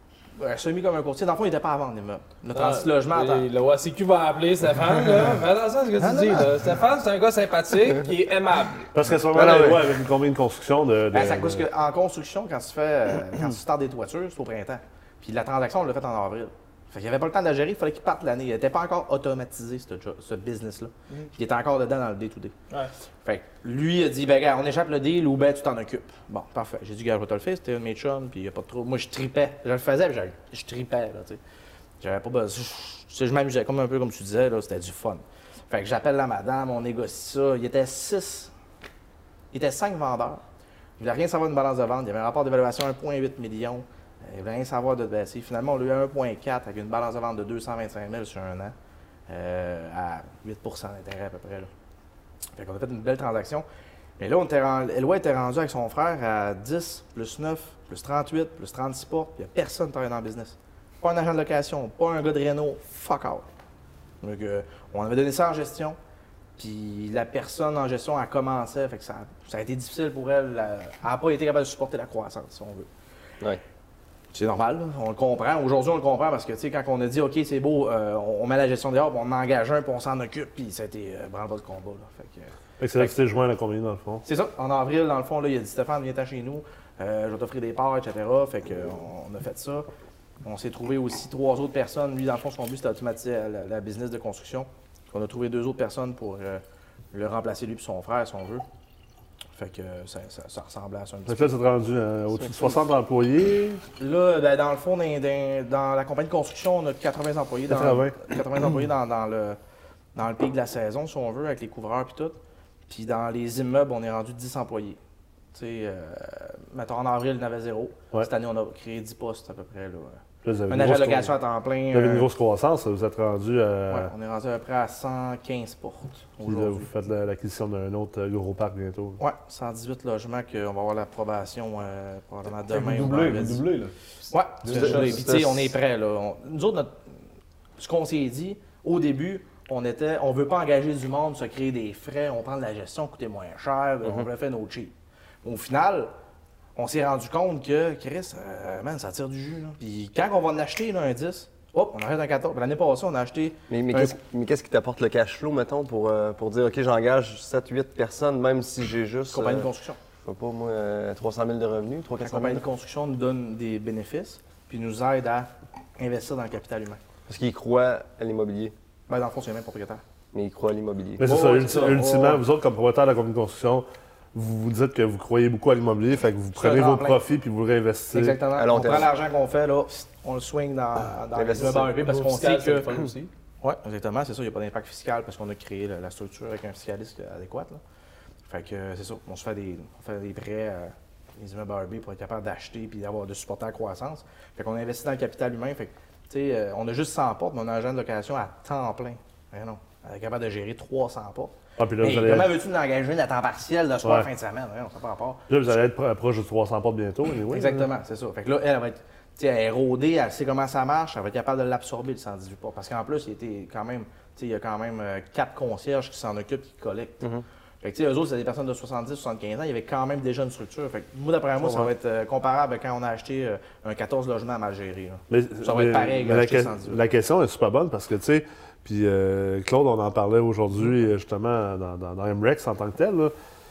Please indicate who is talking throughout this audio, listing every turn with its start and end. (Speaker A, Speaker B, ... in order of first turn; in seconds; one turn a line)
Speaker A: 0.4-3.5
Speaker B: 2.5-8.9
Speaker C: 6.0-6.5
Speaker D: 8.9-11.7
Speaker E: 9.3-9.8
Speaker A: 11.1-22.5
Speaker A: 23.2-31.4
Speaker A: 32.0-38.5
Speaker A: 39.5-40.4
Speaker A: 41.0-48.8
Speaker A: 49.3-51.7
Speaker A: 52.5-53.6
Speaker A: 54.2-63.5
Speaker A: 64.2-66.0
Speaker A: 66.6-72.9
Speaker A: 74.3-83.1
Speaker D: 82.8-84.2
Speaker A: 84.2-89.9
Speaker A: 90.4-98.6
Speaker A: 99.5-101.5
Speaker D: 101.3-103.8
Speaker A: 102.4-102.8
Speaker A: 104.0-109.6
Speaker D: 107.7-108.2
Speaker A: 110.1-112.4
Speaker A: 112.9-115.0
Speaker A: 115.5-122.3
Speaker D: 120.4-121.3
Speaker D: 121.9-124.1
Speaker A: 123.9-126.9
Speaker D: 126.4-129.2
Speaker A: 129.2-133.7
Speaker C: 132.7-133.9
Speaker A: 134.3-137.0
Speaker E: 134.6-135.7
Speaker C: 134.7-135.3
Speaker A: 137.8-146.1
Speaker A: 146.8-154.2
Speaker E: 153.7-159.7
Speaker A: 159.3-160.0
Speaker E: 160.2-162.6
Speaker A: 162.2-167.0
Speaker E: 167.3-168.7
Speaker A: 169.1-170.0
Speaker E: 170.3-171.3
Speaker D: 171.2-178.4
Speaker A: 171.2-172.4
Speaker A: 176.6-177.2
Speaker A: 178.1-182.9
Speaker E: 178.5-179.1
Speaker E: 181.3-182.0
Speaker B: 182.0-183.3
Speaker A: 183.6-187.8
Speaker A: 188.5-205.4
Speaker D: 201.8-202.5
Speaker D: 205.5-207.9
Speaker A: 207.5-217.3
Speaker A: 217.8-227.0
Speaker E: 221.6-221.9
Speaker D: 225.3-233.3